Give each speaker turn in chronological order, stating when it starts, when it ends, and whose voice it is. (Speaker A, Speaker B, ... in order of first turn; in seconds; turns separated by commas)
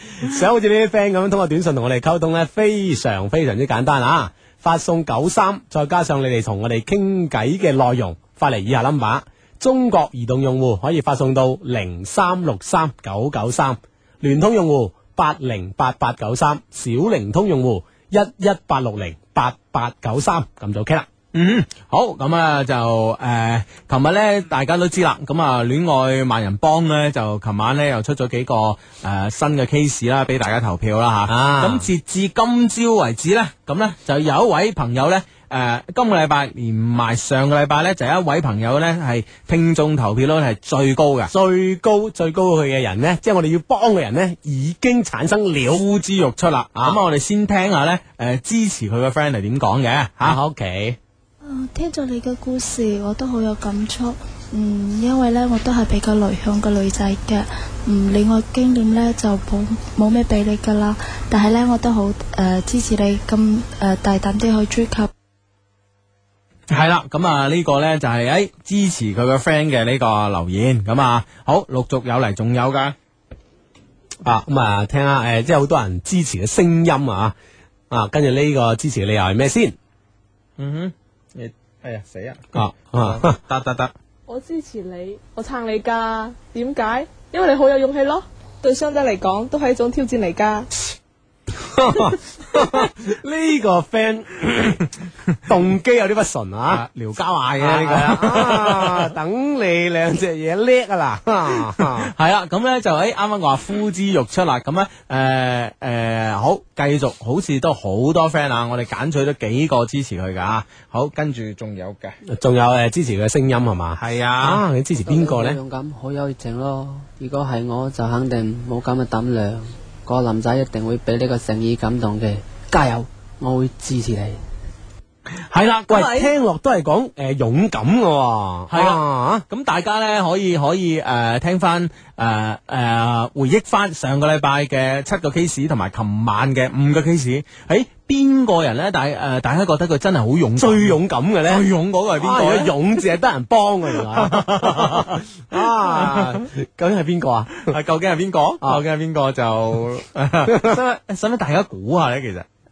Speaker A: 0.2-21.1, Speaker B: 21.3-41.3, Speaker A: 31.3-31.9, Speaker A: 41.3-45.8, Speaker B: 45.7-50.4, Speaker A: 46.8-47.0, Speaker A: 50.2-51.0, Speaker C: 51.4-65.1, Speaker B: 66.7-73.0, Speaker A: 74.2-77.3, Speaker A: 77.9-79.8, Speaker B: 80.6-83.9, Speaker A: 82.5-83.4, Speaker D: 84.3-90.7, Speaker A: 91.6-94.9, Speaker A: 95.5-96.8, Speaker B: 96.7-99.1, Speaker A: 97.6-102.1, Speaker B: 101.8-112.2, Speaker A: 112.3-115.6, Speaker B: 114.0-114.6, Speaker E: 115.0-124.4, Speaker B: 125.4-126.3, Speaker A: 125.9-129.4, Speaker B: 128.7-142.8, Speaker A: 140.6-147.8, Speaker B: 143.9-146.4, Speaker B: 147.6-152.5, Speaker A: 150.5-150.8